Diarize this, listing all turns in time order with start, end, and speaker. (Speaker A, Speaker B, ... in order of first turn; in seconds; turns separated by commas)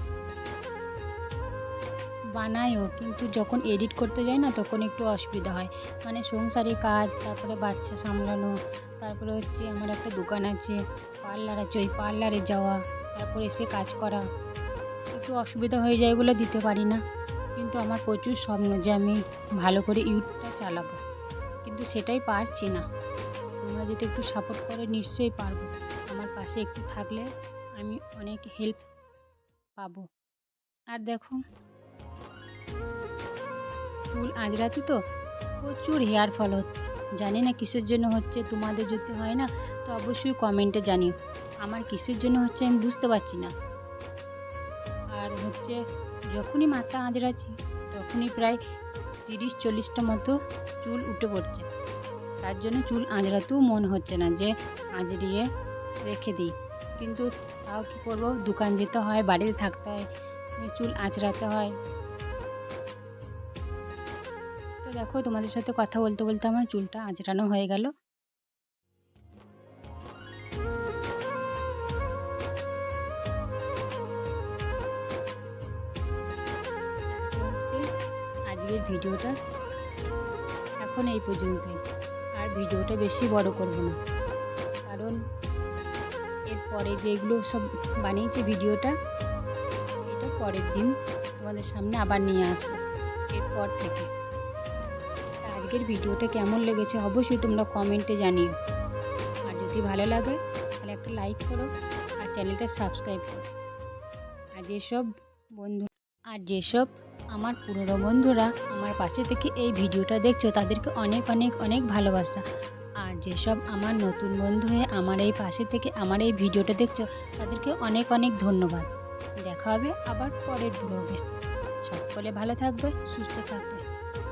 Speaker A: 2.4-14.2, Speaker A: 15.1-17.0, Speaker A: 17.6-21.0, Speaker A: 21.6-22.8, Speaker A: 23.6-27.3, Speaker A: 27.8-28.8, Speaker A: 29.8-30.0, Speaker A: 30.9-31.4, Speaker A: 34.1-35.0, Speaker A: 35.6-43.5, Speaker A: 45.1-45.8, Speaker A: 46.3-48.6, Speaker A: 49.3-51.6, Speaker A: 52.4-55.5, Speaker A: 56.1-60.0, Speaker A: 60.6-61.7, Speaker A: 64.8-67.9, Speaker A: 77.1-77.8, Speaker A: 78.5-79.3, Speaker A: 80.8-81.8, Speaker A: 82.4-84.0, Speaker A: 84.9-85.1, Speaker A: 86.5-88.9, Speaker A: 90.1-92.8, Speaker A: 93.3-94.1, Speaker A: 95.5-98.5, Speaker A: 99.5-101.7, Speaker A: 102.2-103.4, Speaker A: 104.6-105.1, Speaker A: 105.6-112.4, Speaker A: 113.0-118.8, Speaker A: 119.4-121.2, Speaker A: 121.8-123.8